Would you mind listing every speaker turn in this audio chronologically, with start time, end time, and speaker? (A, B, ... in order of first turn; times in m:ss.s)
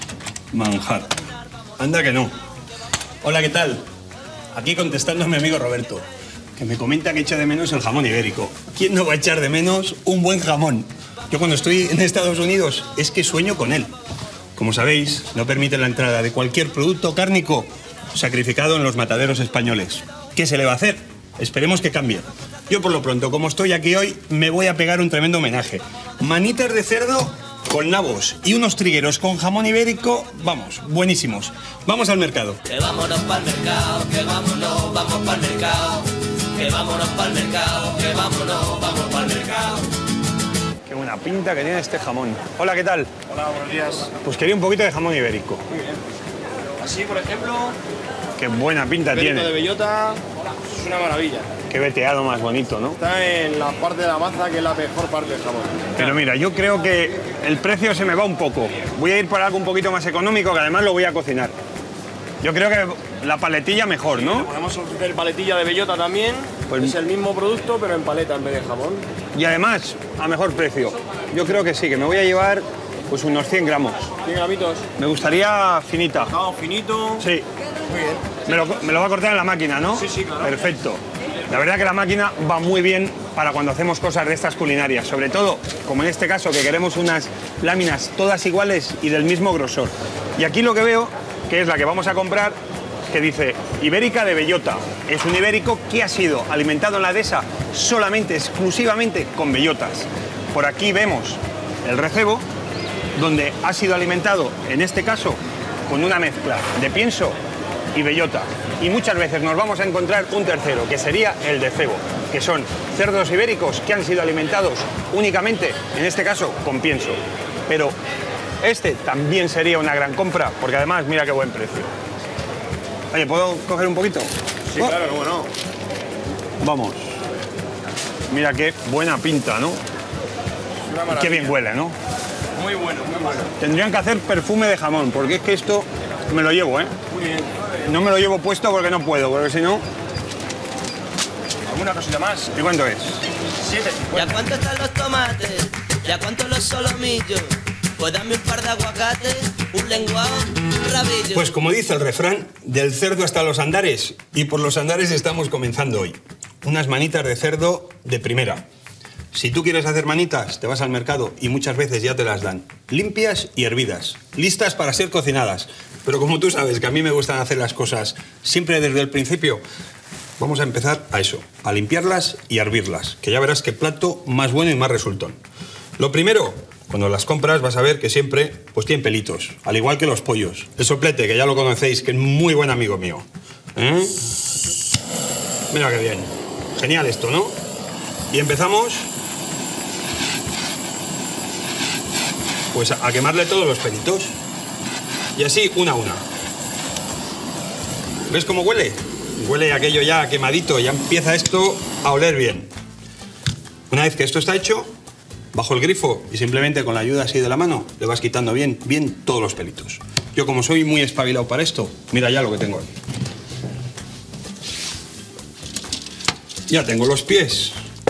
0:00.5-0:01.2 A
0:01.8-0:02.3 A
0:03.2-0:03.9 A
0:04.5-0:13.9 A
0:14.6-0:32.6 A
0:32.7-0:39.8 B
0:40.9-0:43.1 A
0:43.3-0:44.1 C
0:44.2-0:45.6 A
0:45.7-0:46.0 C
0:46.8-0:47.8 C
0:48.4-0:49.5 A
0:49.1-0:51.5 C
0:51.7-0:53.0 A
0:53.0-0:56.1 C
0:56.0-1:01.5 A
1:02.4-1:04.5 A
1:04.2-1:09.0 C
1:06.7-1:07.0 A
1:09.3-1:14.1 A
1:14.2-1:14.8 C
1:15.0-1:16.3 A
1:16.3-1:17.2 C
1:17.2-1:17.4 A
1:17.9-1:18.4 C
1:18.4-1:32.6 A
1:33.1-1:42.4 A
1:43.2-1:47.4 A
1:47.9-1:58.0 A
1:58.6-2:01.9 A
2:03.1-2:05.0 A
2:04.7-2:05.5 C
2:06.6-2:07.2 A
2:08.3-2:09.8 A
2:10.9-2:11.5 C
2:11.1-2:12.0 A
2:12.6-2:13.5 C
2:13.6-2:16.9 A
2:17.1-2:17.7 C
2:17.8-2:19.8 A
2:21.7-2:22.4 C
2:22.4-2:23.2 A
2:23.6-2:24.4 C
2:24.2-2:27.4 B
2:28.0-2:31.4 B
2:31.3-2:38.6 A
2:39.3-2:49.6 A
2:50.4-2:55.4 A
2:56.0-3:04.2 A
3:05.7-3:07.6 A
3:08.3-3:09.1 A
3:12.7-3:14.3 A
3:15.3-3:16.2 A
3:18.3-3:22.7 A
3:23.9-3:24.9 A
3:25.5-3:32.9 A
3:36.7-3:37.8 A